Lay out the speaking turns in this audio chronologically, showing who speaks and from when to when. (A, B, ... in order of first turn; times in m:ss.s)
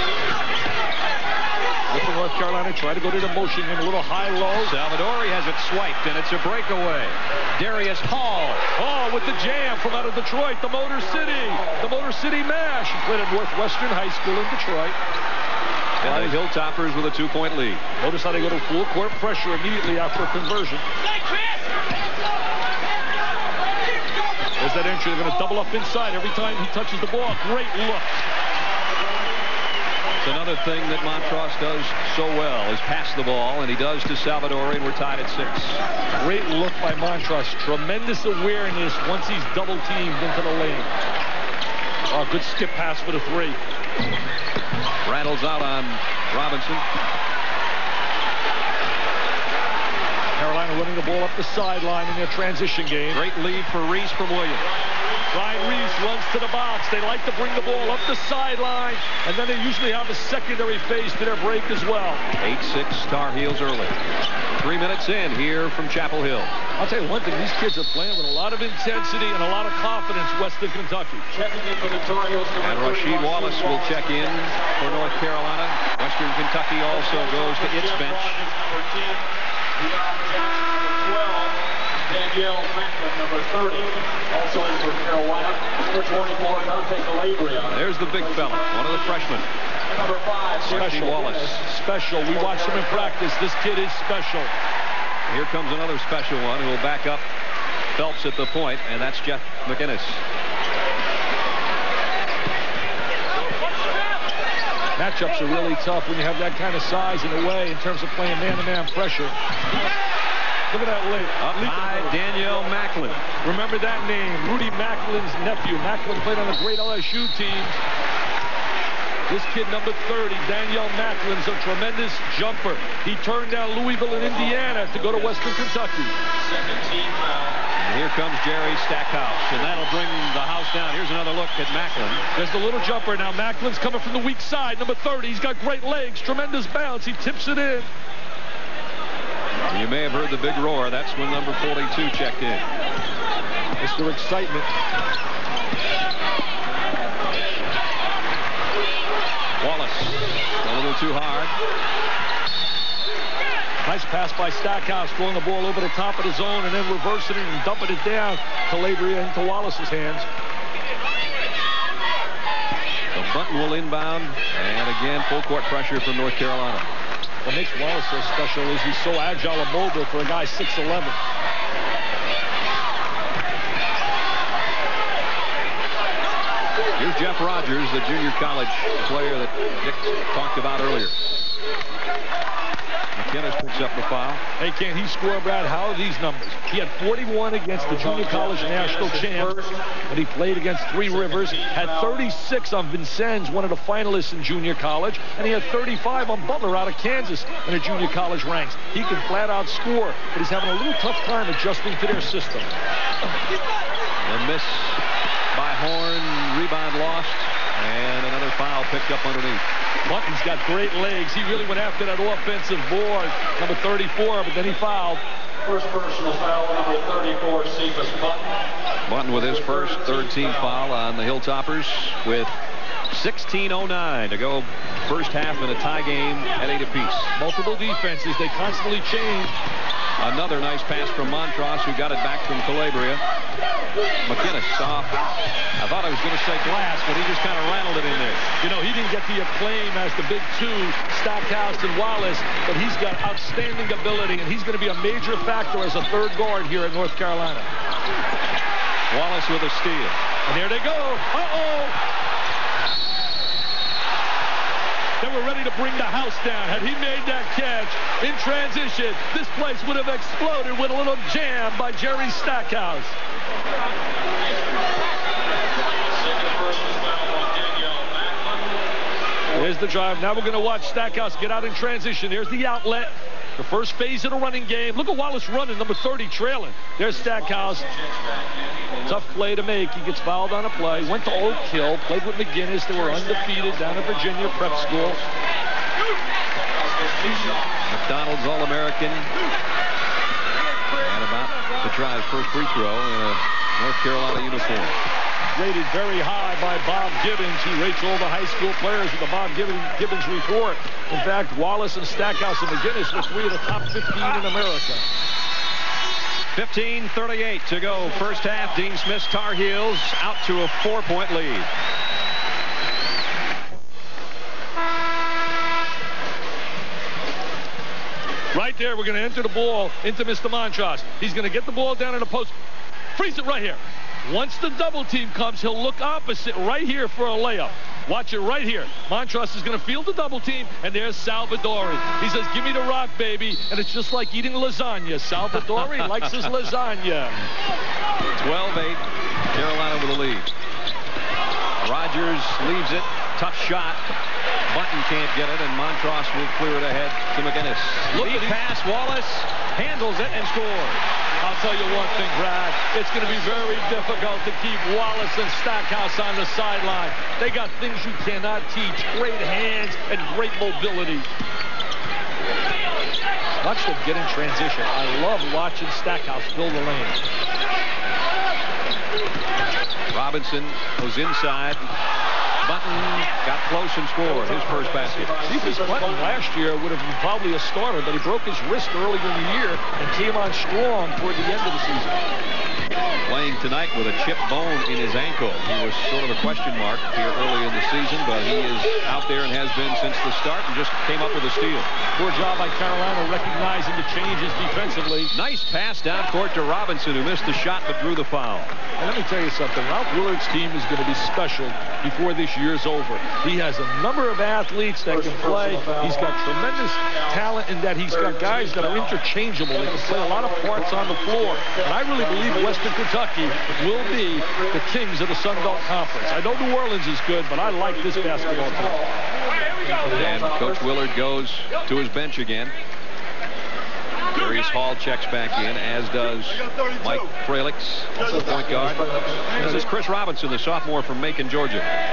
0:01.9-0:04.7 A
0:04.6-0:08.6 B
0:08.8-0:15.0 A
0:11.1-0:11.8 C
0:16.0-0:17.8 B
0:16.0-0:16.4 A
0:18.0-0:20.8 A
0:24.6-0:28.2 A
0:30.2-0:35.8 B
0:36.2-0:40.9 A
0:42.1-0:43.6 A
0:45.0-0:46.8 B
0:50.4-0:53.2 A
0:53.1-0:54.6 B
0:54.8-0:56.0 C
0:55.3-1:02.2 A
1:02.4-1:03.9 B
1:04.6-1:06.5 B
1:06.8-1:11.2 A
1:11.3-1:15.3 C
1:12.6-1:18.4 B
1:16.9-1:29.3 C
1:27.6-1:29.5 B
1:29.8-1:31.6 C
1:30.6-1:31.6 B
1:30.7-1:34.5 A
1:32.3-1:33.2 C
1:35.3-1:37.2 B
1:37.9-1:40.2 B
1:45.0-1:49.3 A
1:50.7-1:52.2 A
1:51.4-1:53.2 B
1:53.4-1:57.8 A
1:59.3-2:06.2 A
2:06.3-2:07.6 C
2:07.8-2:12.2 B
2:12.4-2:17.9 A
2:19.7-2:22.6 B
2:23.8-2:24.7 A
2:29.6-2:31.5 B
2:33.8-2:40.3 A
2:43.1-2:46.9 B
2:47.4-2:51.2 A
2:57.0-3:01.2 B
3:03.2-3:04.4 B
3:04.6-3:09.6 A
3:07.8-3:09.9 C
3:10.1-3:22.7 A
3:11.1-3:12.2 C
3:24.2-3:25.0 B
3:25.5-3:29.6 B
3:30.0-3:35.2 A
3:35.6-3:38.5 C
3:39.1-3:42.5 B
3:39.3-3:40.8 C
3:43.1-3:47.3 B
3:47.4-3:49.6 A
3:50.2-3:53.2 B
3:54.2-3:58.4 B
3:58.6-4:07.7 A
4:09.1-4:10.1 B
4:10.5-4:12.0 A
4:15.2-4:23.2 A
4:26.0-4:28.8 C
4:29.6-4:37.9 A
4:37.1-4:39.4 C
4:39.1-4:45.2 A
4:42.9-4:45.3 C
4:46.5-4:47.8 C
4:47.9-4:49.3 B
4:50.9-4:54.9 B
4:55.6-5:05.0 A
5:06.5-5:11.7 B
5:18.5-5:22.6 A
5:23.2-5:37.4 A
5:38.4-5:40.5 B
5:41.8-5:44.0 B
5:44.7-5:51.0 B
5:48.1-5:48.6 A
5:51.4-6:01.3 A
6:03.6-6:07.2 A
6:10.1-6:11.8 B
6:12.6-6:15.3 B
6:14.2-6:16.4 C
6:15.4-6:22.2 A
6:23.3-6:31.9 B
6:32.2-6:35.3 A
6:35.3-6:38.7 B
6:39.0-6:59.0 A
6:45.1-6:49.2 C
6:49.7-6:55.9 C
6:57.6-6:59.2 C
6:59.8-7:00.9 C
7:00.0-7:02.7 B
7:04.3-7:09.0 B
7:08.2-7:09.8 C
7:09.5-7:11.9 B